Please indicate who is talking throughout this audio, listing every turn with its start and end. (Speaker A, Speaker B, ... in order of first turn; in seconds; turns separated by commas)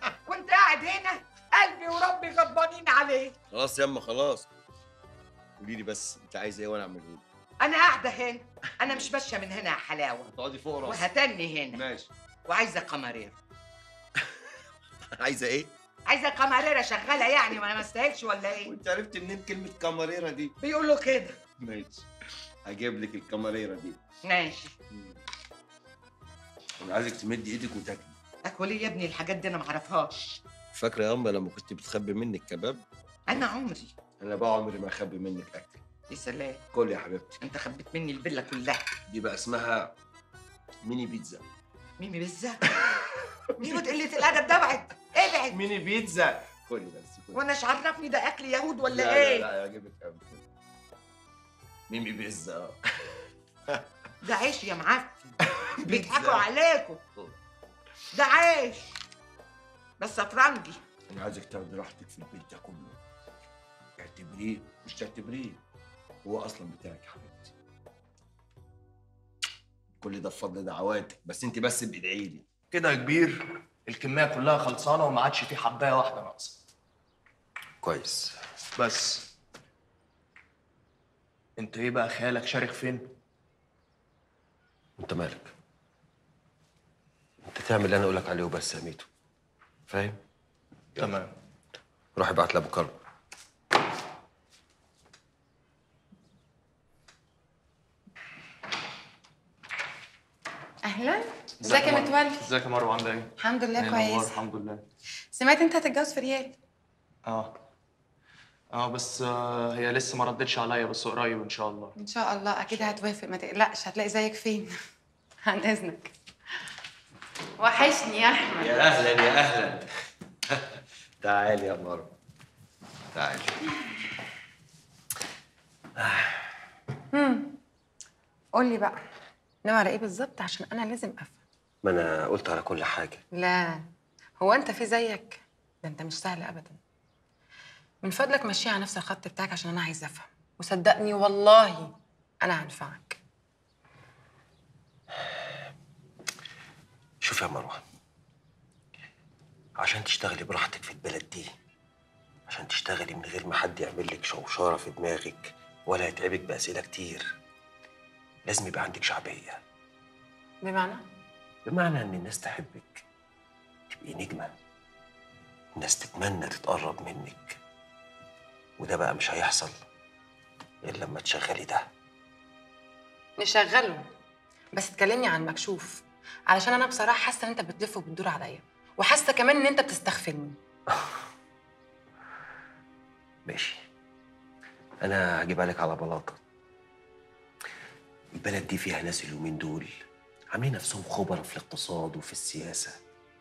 Speaker A: 0.3-3.3, Speaker B: 3.5-4.5, Speaker B: 5.6-7.2, Speaker A: 7.6-10.3, Speaker B: 10.3-11.1, Speaker A: 10.9-11.8, Speaker B: 11.7-12.1, Speaker A: 12.5-13.3, Speaker B: 15.2-15.7, Speaker A: 16.1-18.7, Speaker B: 18.6-20.5, Speaker A: 20.6-21.4, Speaker B: 21.6-22.1, Speaker B: 22.7-24.0, Speaker A: 24.3-24.7, Speaker B: 26.8-28.1, Speaker A: 28.4-30.1, Speaker B: 30.7-32.8, Speaker A: 33.3-33.9, Speaker B: 34.2-35.8, Speaker A: 36.1-36.6, Speaker B: 36.7-37.4, Speaker A: 37.4-38.9, Speaker B: 39.1-39.9, Speaker B: 40.8-41.4, Speaker A: 42.0-42.6, Speaker B: 43.6-43.9, Speaker A: 43.6-45.6, Speaker B: 45.5-47.4, Speaker A: 47.4-49.5, Speaker B: 48.9-50.4, Speaker B: 51.9-52.8, Speaker A: 54.2-55.3, Speaker B: 55.9-56.5, Speaker A: 55.9-57.0, Speaker A: 58.1-58.8, Speaker A: 60.0-60.8, Speaker B: 61.1-63.0, Speaker B: 64.0-65.6, Speaker B: 66.2-67.5, Speaker B: 70.0-72.5, Speaker C: 72.7-76.5, Speaker D: 77.8-78.4, Speaker C: 78.8-79.2, Speaker C: 81.6-83.0, Speaker D: 85.0-85.5, Speaker D: 87.5-89.1, Speaker D: 89.9-90.2, Speaker C: 91.0-91.3, Speaker D: 92.2-93.0, Speaker E: 100.9-102.5, Speaker C: 101.6-104.8, Speaker E: 103.4-104.4, Speaker E: 105.3-106.6, Speaker C: 107.3-107.5, Speaker C: 108.7-111.9, Speaker E: 112.0-114.7, Speaker E: 115.5-116.1, Speaker E: 117.6-118.8, Speaker B: 118.6-119.8, Speaker B: 121.2-122.1, Speaker B: 123.1-123.6, Speaker E: 127.2-127.5, Speaker E: 128.6-129.0, Speaker E: 129.7-131.4, Speaker D: 131.8-133.2, Speaker E: 133.3-133.8, Speaker E: 134.4-136.8, Speaker E: 138.0-141.9, Speaker E: 142.4-143.2, Speaker D: 147.2-147.8, Speaker D: 149.8-151.5, Speaker D: 152.5-157.3, Speaker D: 158.5-159.6, Speaker E: 160.6-161.0, Speaker D: 161.7-163.0, Speaker D: 163.9-164.6, Speaker D: 165.8-167.6, Speaker D: 168.8-169.8, Speaker D: 170.8-171.8, Speaker E: 173.4-174.1, Speaker E: 174.8-180.6, Speaker D: 180.9-181.2, Speaker D: 183.5-183.8, Speaker D: 185.0-186.4, Speaker D: 188.4-189.9, Speaker D: 190.5-193.0